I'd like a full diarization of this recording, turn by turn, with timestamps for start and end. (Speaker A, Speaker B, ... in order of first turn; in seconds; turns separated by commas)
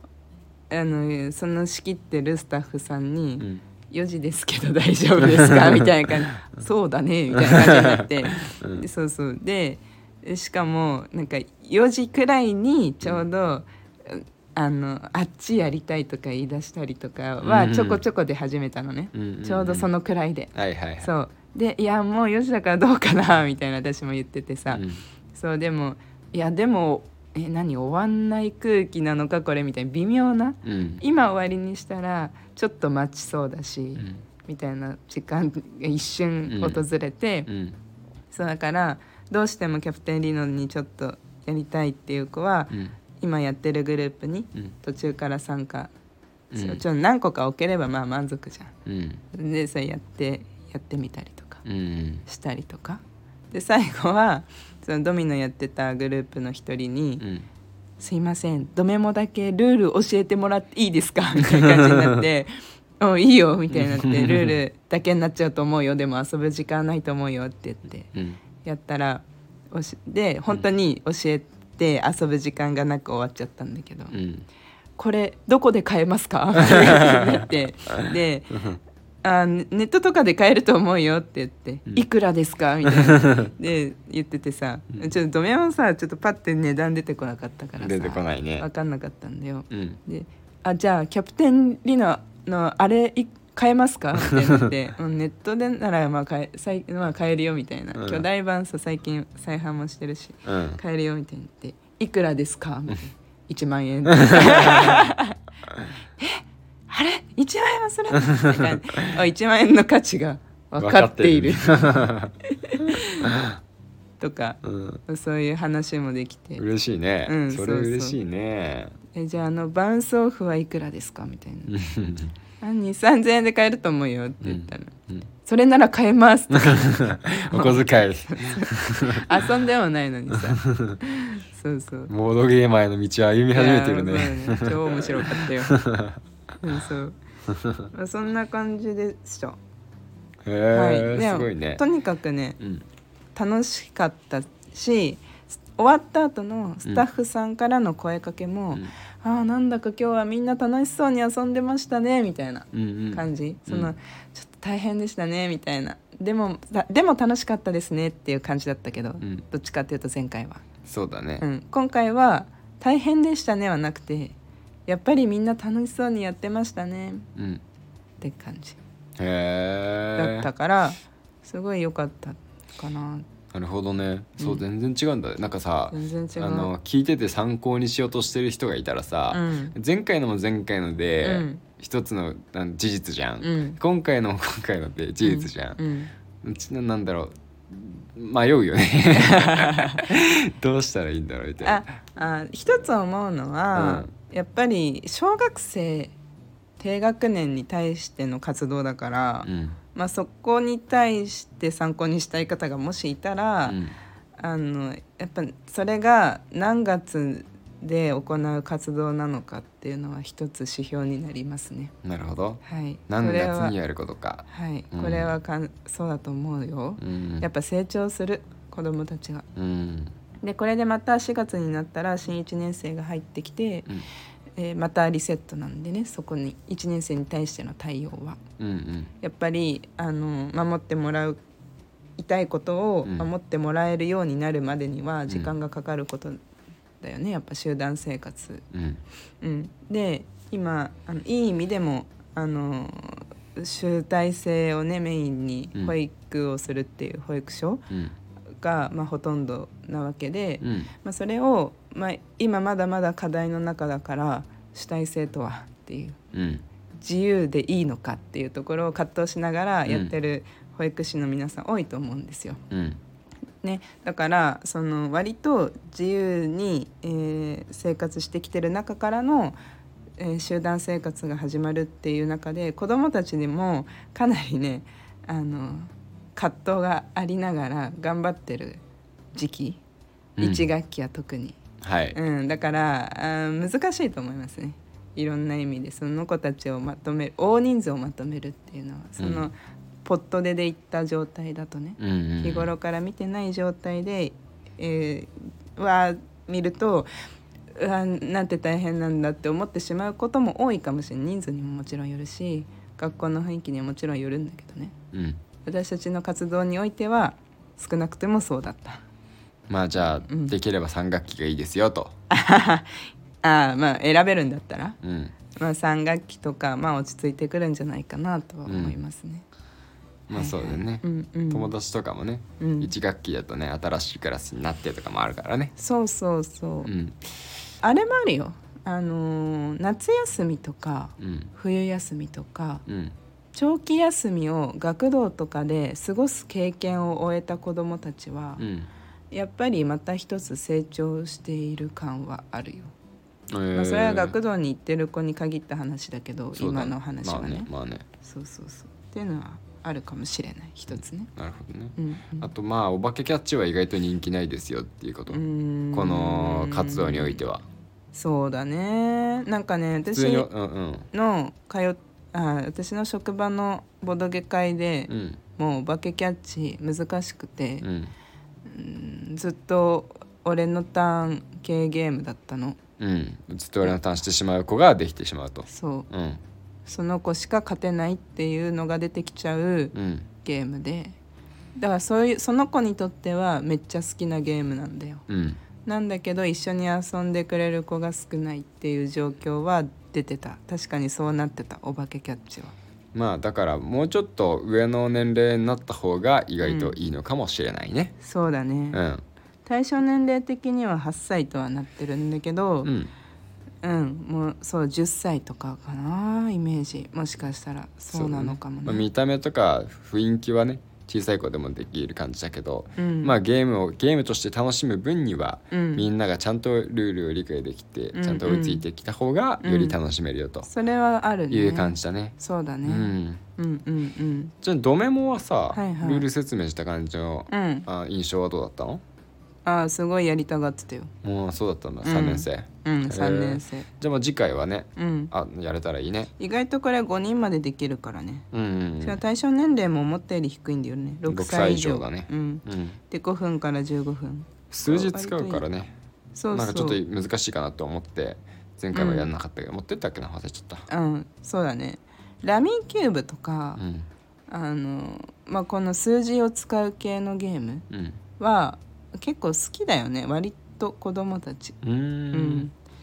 Speaker A: 0.7-37.5, Speaker B: 5.2-5.9, Speaker B: 7.3-8.9, Speaker B: 17.4-18.0, Speaker B: 19.1-19.9, Speaker B: 20.5-21.1, Speaker B: 24.7-25.0, Speaker B: 30.6-31.0, Speaker B: 36.5-36.9, Speaker B: 37.5-37.8, Speaker A: 38.3-45.9, Speaker B: 46.5-46.8, Speaker A: 46.5-48.7, Speaker B: 48.9-49.2, Speaker A: 49.3-51.6, Speaker B: 51.6-52.2, Speaker A: 52.3-57.2, Speaker B: 57.2-57.5, Speaker A: 58.0-74.2, Speaker B: 61.5-62.1, Speaker B: 63.7-64.6, Speaker B: 74.1-74.5, Speaker A: 75.0-78.6, Speaker B: 76.6-77.4, Speaker A: 79.2-105.4, Speaker B: 82.9-83.5, Speaker B: 87.8-88.7, Speaker B: 89.7-90.0, Speaker B: 98.0-98.2, Speaker B: 100.5-100.8, Speaker B: 104.1-105.1, Speaker A: 106.2-113.3, Speaker B: 108.3-108.7, Speaker B: 110.8-113.6, Speaker A: 114.2-116.6, Speaker B: 114.6-115.0, Speaker B: 116.6-118.9, Speaker A: 117.3-118.2, Speaker A: 119.1-121.7, Speaker B: 121.7-122.3, Speaker A: 122.6-132.1, Speaker B: 124.4-125.2, Speaker B: 126.5-129.3, Speaker B: 130.3-131.0, Speaker B: 132.1-136.2, Speaker A: 133.5-135.8, Speaker A: 136.6-137.2, Speaker B: 137.5-137.9, Speaker A: 137.9-139.6, Speaker B: 140.4-141.8, Speaker A: 140.7-142.6, Speaker A: 143.3-160.6, Speaker B: 152.7-153.9, Speaker B: 160.9-161.4, Speaker A: 161.4-164.3, Speaker A: 164.9-167.3, Speaker B: 167.4-167.6, Speaker A: 168.2-168.8, Speaker B: 169.2-170.5, Speaker A: 170.2-173.3, Speaker B: 173.5-185.8, Speaker A: 175.9-176.7, Speaker A: 179.3-179.8, Speaker A: 181.2-181.6, Speaker A: 183.4-183.8, Speaker A: 185.2-186.1, Speaker B: 186.4-191.8, Speaker A: 189.1-190.1, Speaker A: 191.6-196.1, Speaker B: 193.7-194.1, Speaker A: 196.8-203.8, Speaker B: 199.4-199.8, Speaker B: 203.7-203.9, Speaker A: 204.4-211.9, Speaker B: 212.0-215.3, Speaker A: 212.6-213.8, Speaker A: 214.5-219.5, Speaker B: 217.0-217.5, Speaker B: 219.6-220.1, Speaker A: 220.4-223.9, Speaker A: 224.6-228.4, Speaker B: 228.6-229.1, Speaker A: 229.2-231.4, Speaker A: 232.2-236.4, Speaker A: 237.0-238.7, Speaker B: 238.7-239.0, Speaker A: 239.4-247.8, Speaker A: 248.6-256.2, Speaker B: 250.6-250.9, Speaker B: 256.3-256.6, Speaker A: 257.0-262.6, Speaker B: 259.9-260.1, Speaker B: 262.7-263.0, Speaker A: 263.6-269.6, Speaker A: 270.2-278.8, Speaker A: 279.3-279.8, Speaker B: 280.4-280.7, Speaker A: 280.4-281.6, Speaker B: 281.8-282.2, Speaker A: 282.1-297.1, Speaker B: 289.2-289.5, Speaker B: 292.0-292.7, Speaker A: 297.8-304.9, Speaker B: 305.1-305.4, Speaker A: 305.6-309.0, Speaker B: 309.7-312.1, Speaker A: 310.3-310.6, Speaker A: 312.3-315.0, Speaker B: 315.0-315.3, Speaker A: 315.6-319.4, Speaker B: 318.7-319.0, Speaker B: 320.3-325.7, Speaker A: 320.3-321.7, Speaker A: 322.6-322.9, Speaker A: 325.8-326.9, Speaker B: 326.9-327.2, Speaker A: 327.8-332.9, Speaker B: 331.2-331.5, Speaker B: 332.9-333.1, Speaker A: 333.5-338.6, Speaker B: 338.6-338.9, Speaker A: 339.3-342.9, Speaker B: 343.5-344.4, Speaker A: 343.7-347.7, Speaker B: 346.6-348.1, Speaker A: 348.2-351.3, Speaker B: 351.4-355.4, Speaker A: 352.0-352.5, Speaker A: 355.3-357.4, Speaker B: 355.9-357.6, Speaker A: 358.1-360.5, Speaker B: 360.1-361.1, Speaker A: 361.1-367.9, Speaker B: 365.1-365.4, Speaker B: 367.8-368.1, Speaker A: 368.7-372.8, Speaker B: 373.0-376.4, Speaker A: 375.7-376.1, Speaker A: 376.9-381.1, Speaker B: 379.9-380.3, Speaker A: 381.8-385.2, Speaker B: 385.3-385.6, Speaker A: 385.9-392.8, Speaker B: 393.1-398.1, Speaker A: 396.6-396.9, Speaker A: 398.2-399.0, Speaker B: 398.9-399.2, Speaker A: 399.7-402.9, Speaker B: 402.8-403.1, Speaker A: 403.8-409.1, Speaker B: 408.1-420.7, Speaker A: 413.0-413.4, Speaker A: 415.7-416.1, Speaker A: 418.1-418.8, Speaker A: 419.6-420.0, Speaker A: 420.6-424.5, Speaker B: 421.5-423.4, Speaker B: 424.6-429.0, Speaker A: 425.7-426.3, Speaker A: 427.5-427.9, Speaker A: 429.6-431.1, Speaker B: 431.2-436.3, Speaker A: 432.0-433.9, Speaker A: 435.0-435.3, Speaker A: 436.4-438.5, Speaker B: 438.5-439.2, Speaker A: 439.0-445.6, Speaker B: 441.3-443.0, Speaker B: 444.7-445.9, Speaker A: 446.4-447.0, Speaker B: 446.5-450.9, Speaker A: 448.9-449.3, Speaker A: 450.9-453.8, Speaker B: 453.8-454.1, Speaker A: 454.5-457.9, Speaker B: 457.9-458.2, Speaker A: 458.4-461.8, Speaker B: 461.8-462.7, Speaker A: 462.3-462.7